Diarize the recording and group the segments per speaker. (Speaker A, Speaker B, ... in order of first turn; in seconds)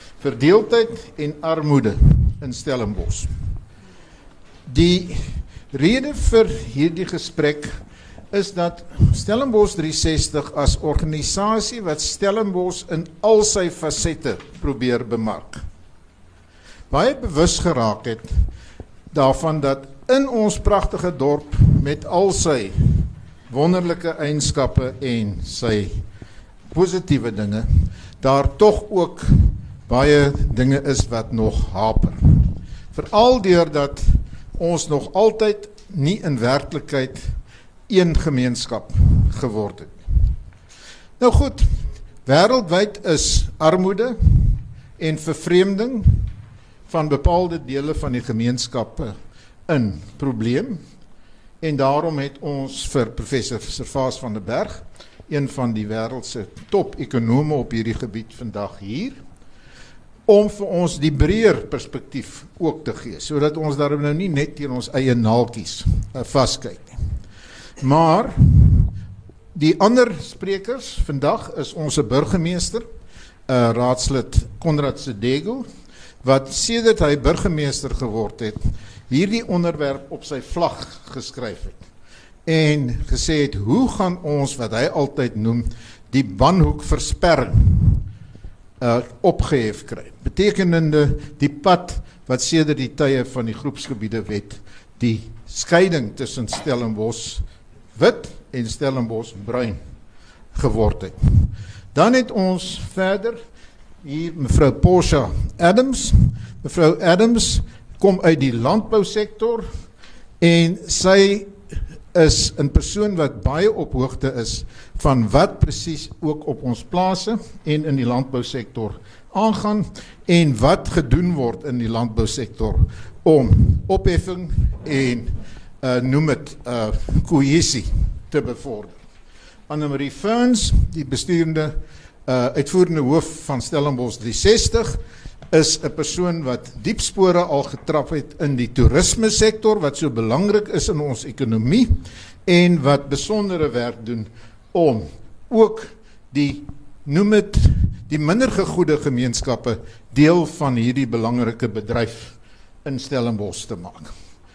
Speaker A: 0.2-3.3, 4.7-7.8, 8.3-15.6, 16.9-18.3, 19.1-26.0, 26.7-37.3, 37.9-40.1, 41.2-46.3, 46.9-49.1, 49.7-50.8, 51.6-59.2, 60.3-67.0, 67.8-68.9, 69.5-72.8, 73.5-75.7, 76.2-81.8, 82.5-88.0, 88.8-97.4, 98.0-99.8, 100.5-103.4, 104.0-109.7, 110.4-111.6, 112.1-129.0, 129.7-135.0, 135.5-154.1